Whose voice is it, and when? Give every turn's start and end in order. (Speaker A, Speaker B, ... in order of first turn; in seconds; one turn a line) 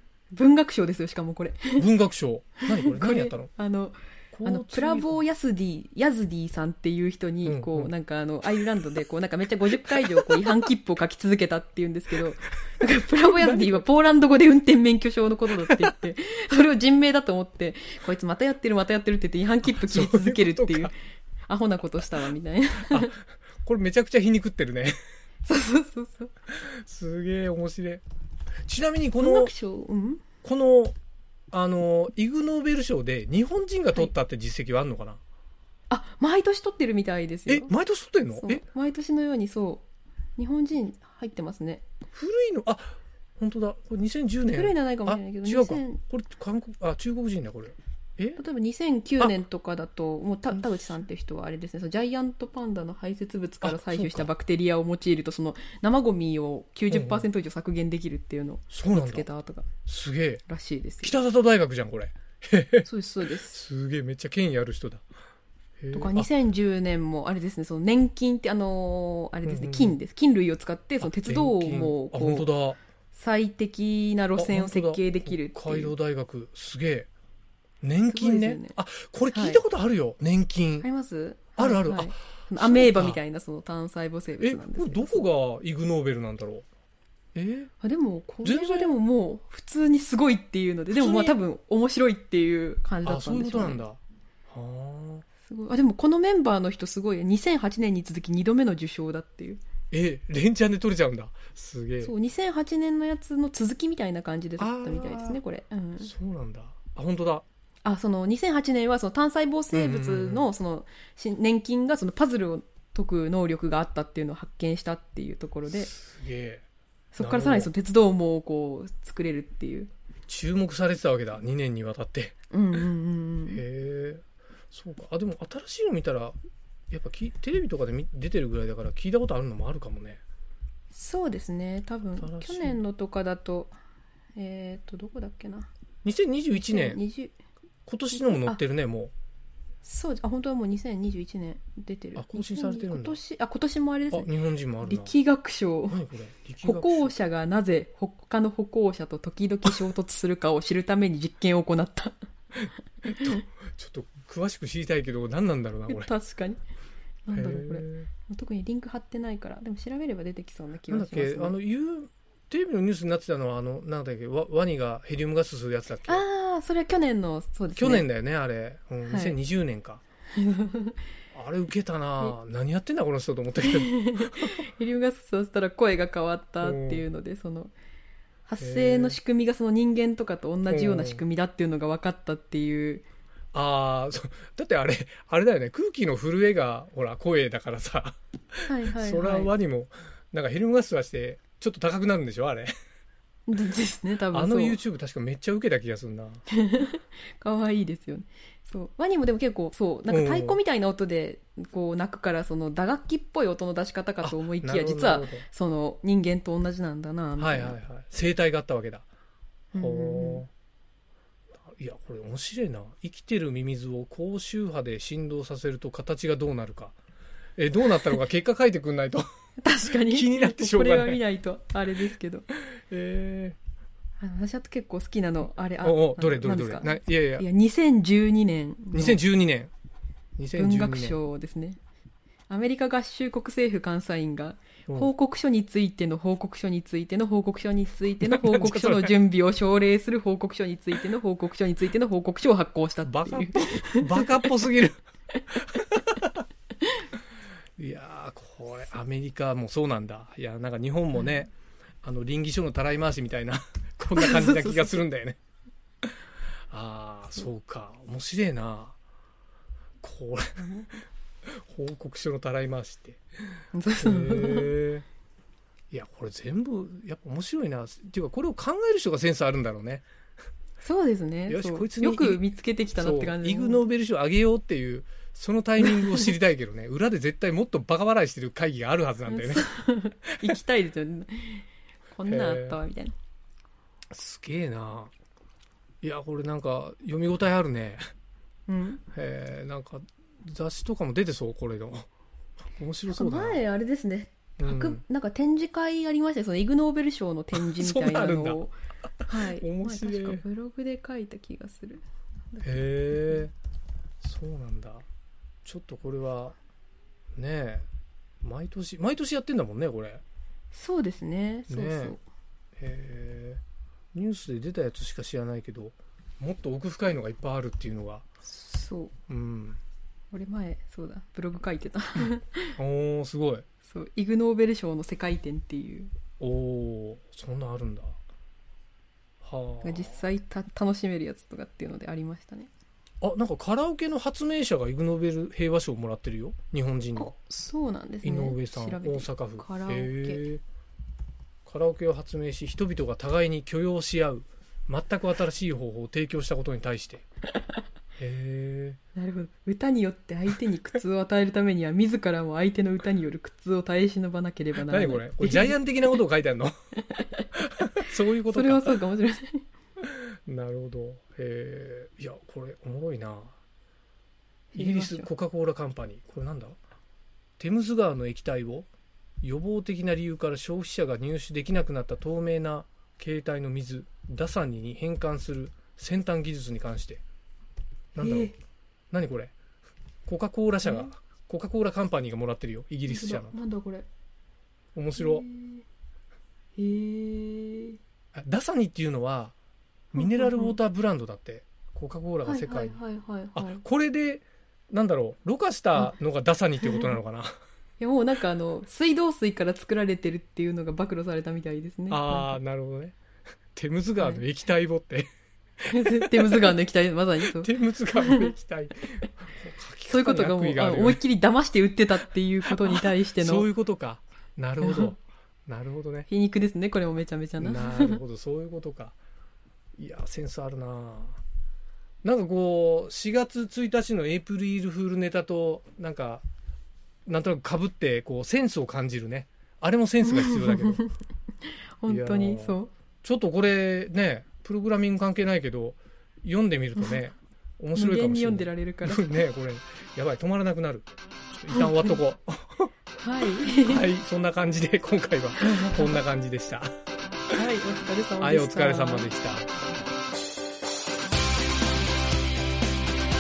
Speaker A: 0.3-1.9
Speaker B: 1.8-3.5
Speaker A: 2.7-20.9
Speaker B: 4.3-5.2
Speaker B: 7.4-7.9
Speaker B: 9.9-10.3
Speaker B: 13.3-13.8
Speaker B: 19.6-20.9
Speaker A: 21.5-23.1
Speaker B: 22.9-25.0
Speaker A: 25.4-26.3
Speaker B: 26.5-28.0
Speaker B: 28.7-29.5
Speaker A: 29.2-30.2
Speaker B: 30.4-30.9
Speaker B: 31.5-35.2
Speaker A: 35.9-37.7
Speaker B: 37.5-38.6
Speaker A: 38.4-39.8
Speaker A: 40.4-41.8
Speaker B: 42.1-48.4
Speaker A: 44.5-46.0
Speaker A: 48.4-59.7
Speaker B: 53.6-54.3
Speaker B: 56.9-57.3
Speaker B: 58.7-59.3
Speaker B: 59.9-60.4
Speaker A: 60.5-61.2
Speaker B: 61.0-62.9
Speaker A: 62.8-63.6
Speaker B: 63.4-65.0
Speaker B: 65.8-66.3
Speaker A: 65.9-72.5
Speaker B: 69.4-70.0
Speaker B: 71.0-72.8
Speaker A: 73.1-75.9
Speaker B: 74.4-77.1
Speaker B: 77.8-80.9
Speaker A: 78.1-78.8
Speaker A: 79.3-79.6
Speaker A: 80.8-85.2
Speaker B: 81.6-83.2
Speaker B: 84.4-86.7
Speaker B: 87.3-87.7
Speaker A: 87.8-93.8
Speaker B: 88.4-89.0
Speaker B: 90.9-91.4
Speaker B: 93.0-94.0
Speaker B: 94.5-95.2
Speaker A: 95.5-99.6
Speaker B: 99.9-102.1
Speaker A: 102.0-106.1
Speaker B: 104.6-105.4
Speaker B: 106.0-107.5
Speaker A: 107.8-115.9
Speaker B: 109.7-110.5
Speaker B: 115.7-116.7
Speaker A: 117.1-119.9
Speaker B: 117.2-117.7
Speaker B: 120.3-122.3
Speaker A: 122.5-123.6
Speaker B: 123.5-126.4
Speaker B: 126.9-130.2
Speaker A: 130.9-133.8
Speaker B: 132.2-132.8
Speaker A: 134.4-135.7
Speaker B: 136.0-137.0
Speaker A: 136.5-137.3
Speaker B: 137.9-139.1
Speaker A: 138.1-138.6
Speaker A: 139.8-144.3
Speaker B: 142.2-143.2
Speaker B: 144.1-145.2
Speaker A: 144.8-146.0
Speaker B: 145.9-147.2
Speaker A: 146.6-152.2
Speaker B: 153.1-156.1
Speaker A: 155.9-156.6
Speaker A: 157.3-161.6
Speaker B: 157.3-158.1
Speaker B: 160.9-166.2
Speaker A: 166.1-168.1
Speaker B: 167.8-170.0
Speaker A: 169.1-169.4
Speaker A: 170.4-171.0
Speaker B: 171.3-174.6
Speaker A: 173.6-177.7
Speaker B: 176.6-177.1
Speaker A: 178.5-183.1
Speaker B: 178.6-179.2
Speaker B: 180.7-181.2
Speaker B: 183.5-192.7
Speaker A: 188.7-189.5
Speaker A: 193.5-194.8
Speaker B: 194.3-196.4
Speaker A: 196.5-207.8
Speaker B: 200.1-200.6
Speaker B: 204.2-205.4
Speaker B: 207.4-209.1
Speaker A: 209.7-210.4
Speaker B: 209.8-210.5
Speaker B: 211.7-216.9
Speaker B: 217.6-219.3
Speaker A: 219.6-222.5
Speaker B: 219.8-221.2
Speaker B: 222.8-223.6
Speaker A: 224.2-229.2
Speaker B: 225.8-227.5
Speaker B: 228.9-229.7
Speaker B: 230.4-231.2
Speaker A: 230.6-231.8
Speaker A: 232.5-244.5
Speaker B: 238.2-239.2
Speaker B: 243.0-245.0
Speaker B: 245.8-246.3
Speaker B: 247.8-251.5
Speaker B: 252.0-255.4
Speaker A: 254.2-255.0
Speaker B: 256.7-259.0
Speaker B: 260.0-260.7
Speaker A: 260.6-260.9
Speaker B: 261.5-263.2
Speaker A: 263.7-264.8
Speaker B: 264.0-265.1
Speaker B: 265.9-270.1
Speaker A: 270.8-273.8
Speaker B: 271.5-279.7
Speaker A: 275.8-276.3
Speaker A: 279.3-283.1
Speaker B: 282.3-282.8
Speaker B: 284.1-285.1
Speaker B: 286.0-288.0
Speaker A: 288.7-289.0
Speaker B: 289.1-292.1
Speaker B: 292.8-293.6
Speaker A: 293.1-298.7
Speaker B: 294.6-295.0
Speaker B: 297.5-298.6
Speaker B: 299.2-300.4
Speaker A: 299.3-303.4
Speaker B: 302.6-303.5
Speaker B: 304.2-305.1
Speaker B: 305.6-306.6
Speaker B: 307.4-307.9
Speaker B: 308.4-310.2
Speaker A: 310.7-312.2
Speaker B: 311.7-312.2
Speaker B: 312.8-313.6
Speaker B: 314.1-318.2
Speaker A: 318.4-319.1
Speaker B: 319.3-319.8
Speaker A: 320.3-322.8
Speaker B: 322.8-323.6
Speaker A: 323.8-326.1
Speaker B: 326.4-328.2
Speaker B: 329.4-330.2
Speaker A: 329.8-332.7
Speaker B: 333.2-337.3
Speaker A: 337.2-340.4
Speaker B: 338.2-340.6
Speaker B: 341.6-347.2
Speaker B: 348.2-349.0
Speaker A: 349.2-355.8
Speaker B: 354.8-356.8
Speaker A: 357.2-357.4
Speaker B: 357.6-359.0
Speaker A: 358.5-359.6
Speaker B: 360.0-363.6
Speaker B: 364.7-366.8
Speaker A: 364.8-365.3
Speaker B: 367.6-368.9
Speaker B: 369.4-377.2
Speaker B: 378.2-378.5
Speaker A: 378.2-378.5
Speaker B: 379.1-379.5
Speaker B: 380.3-383.6
Speaker A: 380.9-381.1
Speaker A: 383.1-384.1
Speaker B: 384.9-385.4
Speaker A: 385.2-385.8
Speaker A: 386.8-388.0
Speaker B: 388.4-389.6
Speaker B: 390.1-393.0
Speaker A: 390.1-390.8
Speaker A: 392.4-393.8
Speaker B: 393.5-397.5
Speaker A: 396.8-397.1
Speaker A: 398.0-402.5
Speaker B: 402.1-403.2
Speaker B: 403.8-405.3
Speaker B: 405.8-406.7
Speaker A: 405.9-408.5
Speaker B: 407.6-411.2
Speaker A: 410.1-413.7
Speaker B: 412.6-416.3
Speaker A: 414.8-415.1
Speaker A: 416.3-418.2
Speaker B: 417.6-419.1
Speaker B: 420.0-421.4
Speaker B: 422.2-426.5
Speaker B: 427.3-431.0
Speaker A: 430.2-431.1
Speaker A: 432.0-432.9
Speaker B: 432.1-442.9
Speaker A: 437.9-439.4
Speaker A: 441.7-442.2
Speaker A: 443.2-444.1
Speaker B: 443.6-446.9
Speaker A: 445.6-446.1
Speaker A: 447.5-449.3
Speaker B: 448.4-449.7